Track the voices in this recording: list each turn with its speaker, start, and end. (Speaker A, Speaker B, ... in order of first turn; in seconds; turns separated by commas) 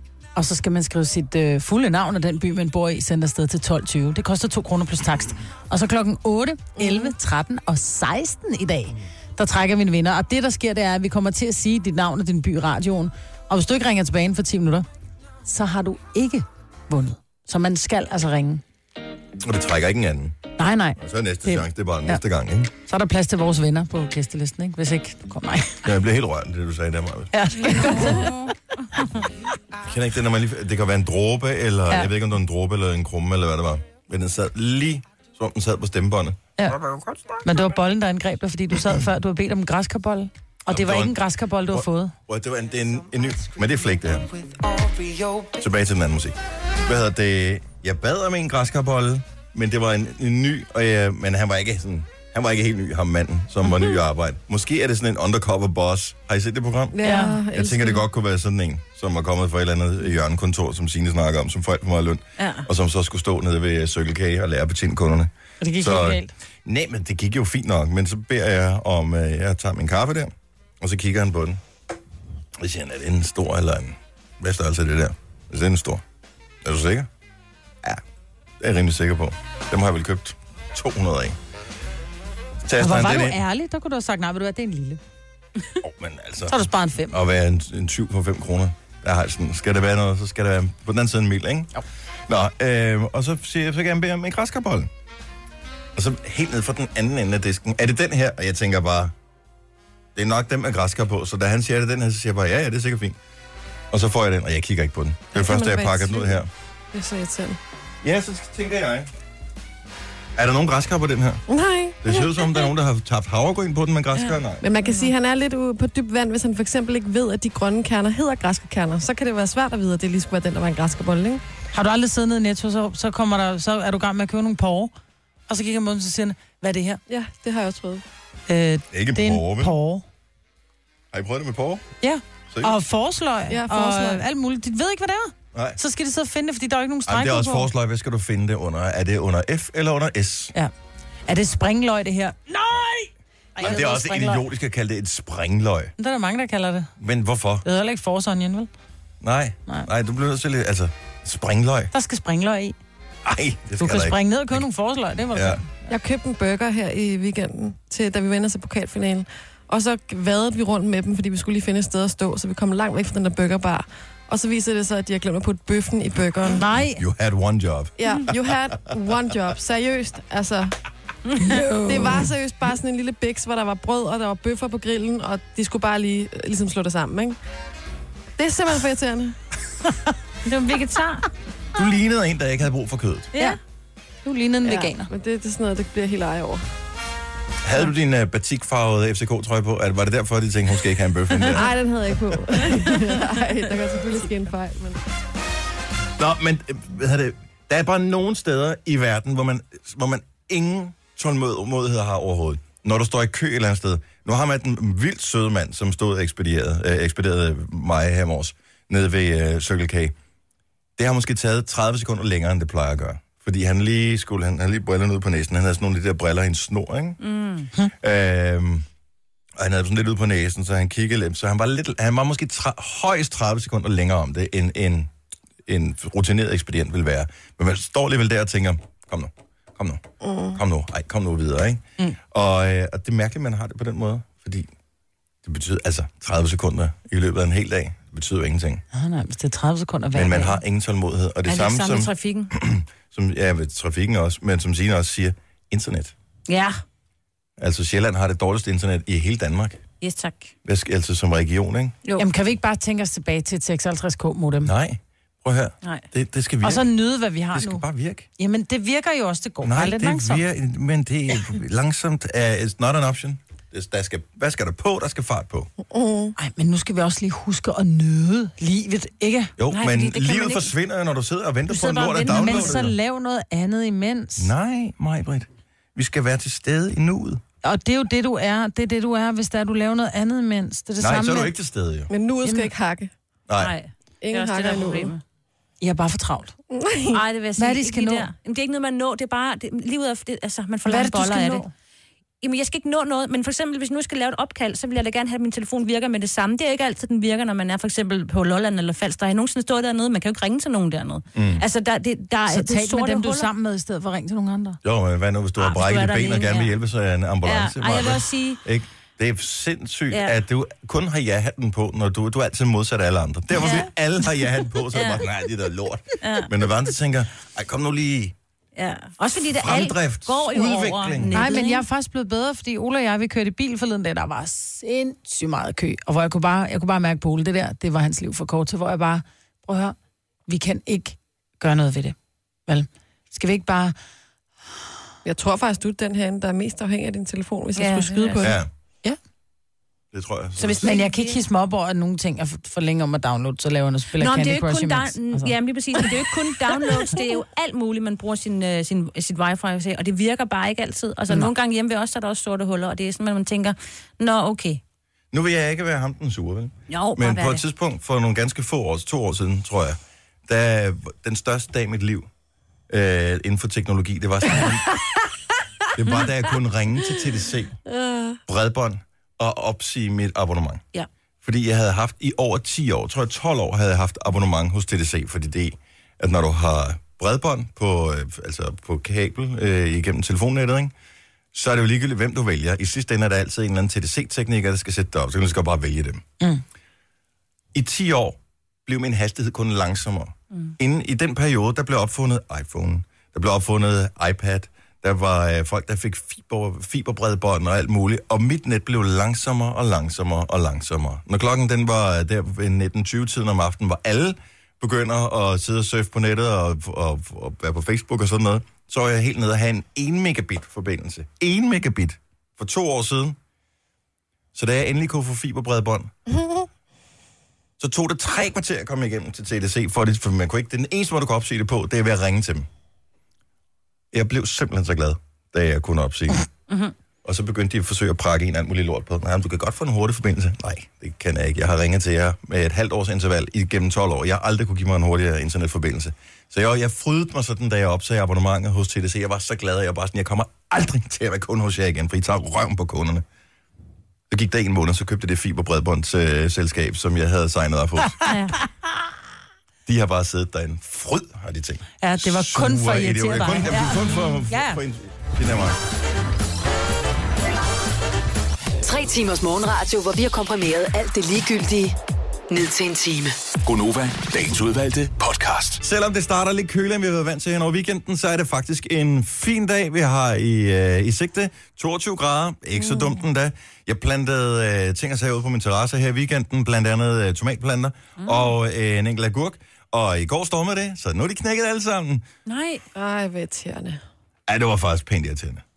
Speaker A: 0.3-14.8, Speaker B: 6.8-7.1, Speaker A: 15.4-18.6, Speaker C: 19.4-20.4, Speaker A: 20.6-22.2, Speaker C: 21.0-22.7, Speaker A: 22.9-25.9, Speaker C: 25.8-28.0, Speaker A: 27.3-28.3, Speaker C: 29.8-37.2, Speaker A: 37.4-42.1, Speaker C: 40.7-41.2, Speaker C: 41.7-44.3, Speaker C: 45.5-71.6, Speaker B: 56.9-58.0, Speaker A: 57.0-57.4, Speaker D: 62.4-62.7, Speaker A: 65.6-66.3, Speaker C: 72.6-76.0, Speaker C: 76.6-77.1, Speaker C: 78.6-81.4, Speaker C: 82.6-83.4, Speaker A: 82.8-85.0, Speaker C: 85.8-91.7, Speaker A: 86.5-87.2, Speaker C: 92.3-94.9, Speaker C: 95.9-99.1, Speaker C: 100.1-103.2, Speaker C: 103.9-106.5, Speaker B: 105.3-106.4, Speaker B: 106.9-107.6, Speaker C: 108.0-109.1, Speaker C: 110.3-111.4, Speaker B: 111.5-112.7, Speaker C: 112.0-114.7, Speaker D: 114.1-114.4, Speaker B: 114.6-121.4, Speaker A: 121.7-124.9, Speaker A: 125.5-127.0, Speaker B: 127.1-128.0, Speaker A: 128.5-130.0, Speaker C: 128.9-129.7, Speaker C: 131.1-131.8, Speaker A: 132.0-137.7, Speaker C: 132.5-132.8, Speaker B: 133.5-134.2, Speaker C: 135.5-135.8, Speaker C: 137.1-140.5, Speaker A: 141.3-144.4, Speaker C: 143.6-145.9, Speaker A: 146.0-146.9, Speaker C: 147.0-147.6, Speaker A: 147.6-148.7, Speaker C: 149.2-151.9, Speaker A: 151.9-152.8, Speaker C: 153.2-154.6, Speaker A: 153.8-155.7, Speaker C: 155.3-155.6, Speaker B: 155.9-166.6, Speaker A: 166.6-167.0, Speaker C: 166.9-167.9, Speaker B: 168.0-170.7, Speaker A: 171.4-172.3, Speaker B: 171.8-177.4, Speaker B: 178.4-179.3, Speaker D: 180.4-181.3, Speaker C: 181.7-183.3, Speaker D: 183.3-183.6, Speaker A: 184.2-185.1, Speaker B: 184.6-186.6, Speaker C: 187.6-191.7, Speaker B: 191.5-195.0, Speaker C: 196.2-210.1, Speaker C: 211.0-217.2, Speaker D: 217.2-217.7, Speaker C: 218.0-218.8, Speaker C: 219.6-225.1, Speaker C: 225.7-230.0, Speaker B: 230.2-230.6, Speaker C: 230.5-234.7, Speaker C: 235.4-238.8, Speaker A: 238.9-240.6, Speaker C: 240.1-246.1, Speaker D: 241.4-242.5, Speaker D: 246.5-246.8, Speaker C: 247.6-249.8, Speaker D: 250.0-250.5, Speaker C: 250.6-251.9, Speaker A: 252.2-254.7, Speaker C: 254.6-256.9, Speaker A: 256.6-257.8, Speaker C: 257.5-258.3, Speaker A: 258.4-260.4, Speaker C: 259.6-265.7, Speaker B: 265.9-266.3, Speaker A: 266.4-269.5, Speaker C: 269.6-272.9, Speaker D: 269.7-270.7, Speaker D: 271.7-272.8, Speaker A: 272.2-274.5, Speaker C: 274.4-277.4, Speaker A: 277.6-281.5, Speaker C: 281.0-282.1, Speaker B: 282.1-283.1, Speaker A: 282.4-282.7, Speaker C: 283.5-283.7, Speaker D: 283.6-285.2, Speaker B: 284.2-285.1, Speaker A: 285.8-286.5, Speaker B: 286.7-287.2, Speaker D: 287.1-291.6, Speaker A: 287.6-288.3, Speaker A: 290.9-291.7, Speaker D: 292.4-303.5, Speaker C: 301.3-301.6, Speaker A: 302.5-304.8, Speaker C: 304.8-318.3, Speaker D: 305.6-306.7, Speaker D: 307.4-308.6, Speaker D: 310.1-310.4, Speaker D: 313.6-313.9, Speaker D: 314.9-315.3, Speaker D: 316.2-316.5, Speaker D: 318.8-321.8, Speaker C: 319.5-321.4, Speaker A: 321.3-329.9, Speaker A: 330.5-332.1, Speaker A: 332.7-333.9, Speaker B: 335.2-338.6, Speaker D: 337.8-338.5, Speaker C: 338.4-338.7, Speaker C: 340.1-340.9, Speaker A: 340.6-346.2, Speaker D: 340.8-341.4, Speaker D: 344.2-354.8, Speaker C: 355.3-362.3, Speaker D: 356.9-357.6, Speaker C: 362.9-365.0, Speaker C: 365.9-367.8, Speaker C: 368.4-370.8, Speaker C: 371.4-380.9, Speaker C: 381.5-386.2, Speaker C: 387.7-413.4, Speaker C: 414.5-416.1, Speaker B: 416.3-416.7, Speaker C: 417.8-422.7, Speaker C: 424.1-426.5, Speaker D: 426.7-426.9, Speaker C: 427.2-443.2, Speaker C: 444.3-448.2, Speaker D: 448.2-448.6, Speaker C: 449.9-455.8, Speaker A: 452.0-454.0, Speaker D: 453.7-454.2, Speaker A: 454.5-454.8, Speaker E: 458.8-462.0, Speaker E: 462.5-463.4, Speaker F: 463.6-465.8, Speaker C: 465.8-482.2, Speaker D: 478.2-478.5, Speaker D: 482.4-482.8, Speaker B: 482.9-484.0, Speaker C: 484.5-485.6